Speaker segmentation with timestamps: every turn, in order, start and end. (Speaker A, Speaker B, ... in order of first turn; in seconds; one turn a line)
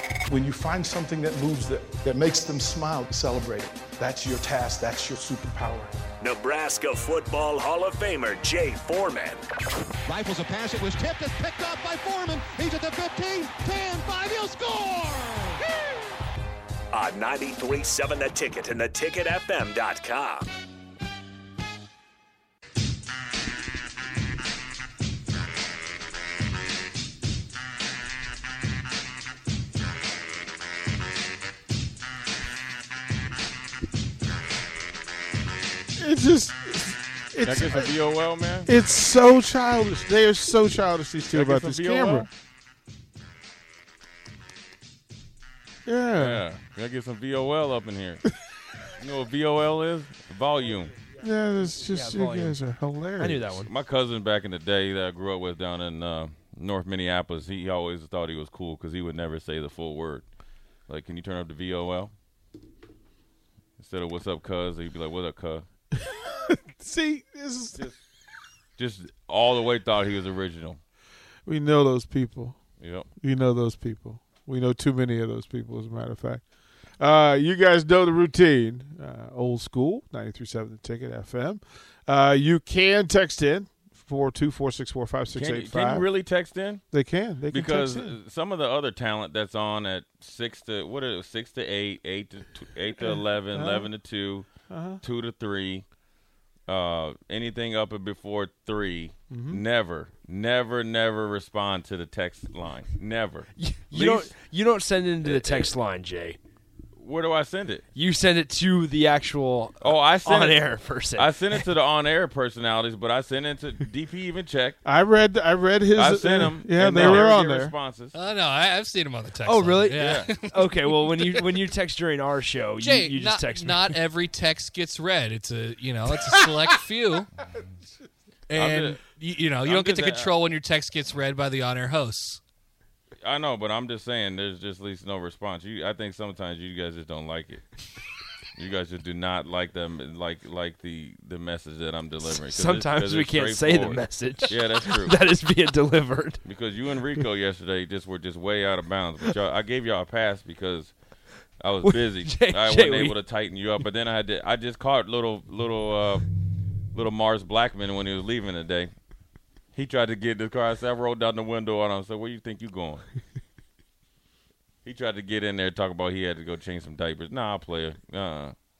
Speaker A: 0.3-6.0
Speaker B: 6.2-9.4
Speaker C: 10.1-15.6
Speaker B: 16.9-20.5
Speaker D: 36.0-38.0
Speaker E: 37.4-38.7
Speaker D: 38.6-42.3
Speaker E: 41.3-42.3
Speaker D: 45.9-46.4
Speaker E: 46.2-48.2
Speaker E: 49.0-51.0
Speaker D: 51.1-53.5
Speaker F: 51.8-52.6
Speaker F: 53.2-53.7
Speaker E: 53.6-60.2
Speaker E: 60.9-62.1
Speaker E: 63.8-65.7
Speaker D: 65.9-67.9
Speaker E: 68.8-70.8
Speaker D: 71.5-72.6
Speaker E: 72.8-73.1
Speaker D: 73.2-76.4
Speaker D: 77.0-86.0
Speaker E: 85.3-86.8
Speaker D: 86.9-88.2
Speaker E: 87.5-94.5
Speaker D: 93.0-93.9
Speaker D: 94.7-95.0
Speaker E: 95.0-95.8
Speaker E: 96.7-104.3
Speaker D: 99.3-99.6
Speaker F: 103.6-106.4
Speaker E: 105.2-105.7
Speaker E: 107.0-107.8
Speaker F: 107.9-111.6
Speaker E: 109.8-110.6
Speaker E: 111.1-114.8
Speaker D: 114.8-117.7
Speaker E: 115.9-118.1
Speaker G: 118.1-121.4
Speaker F: 119.4-123.9
Speaker E: 120.0-120.3
Speaker G: 122.8-127.3
Speaker G: 128.5-132.4
Speaker E: 128.5-129.0
Speaker E: 129.6-130.3
Speaker E: 133.2-137.7
Speaker E: 138.6-145.2
Speaker F: 142.2-146.4
Speaker E: 146.4-150.9
Speaker E: 151.6-156.2
Speaker F: 151.8-153.2
Speaker E: 156.9-158.9
Speaker E: 159.8-163.1
Speaker E: 164.8-168.5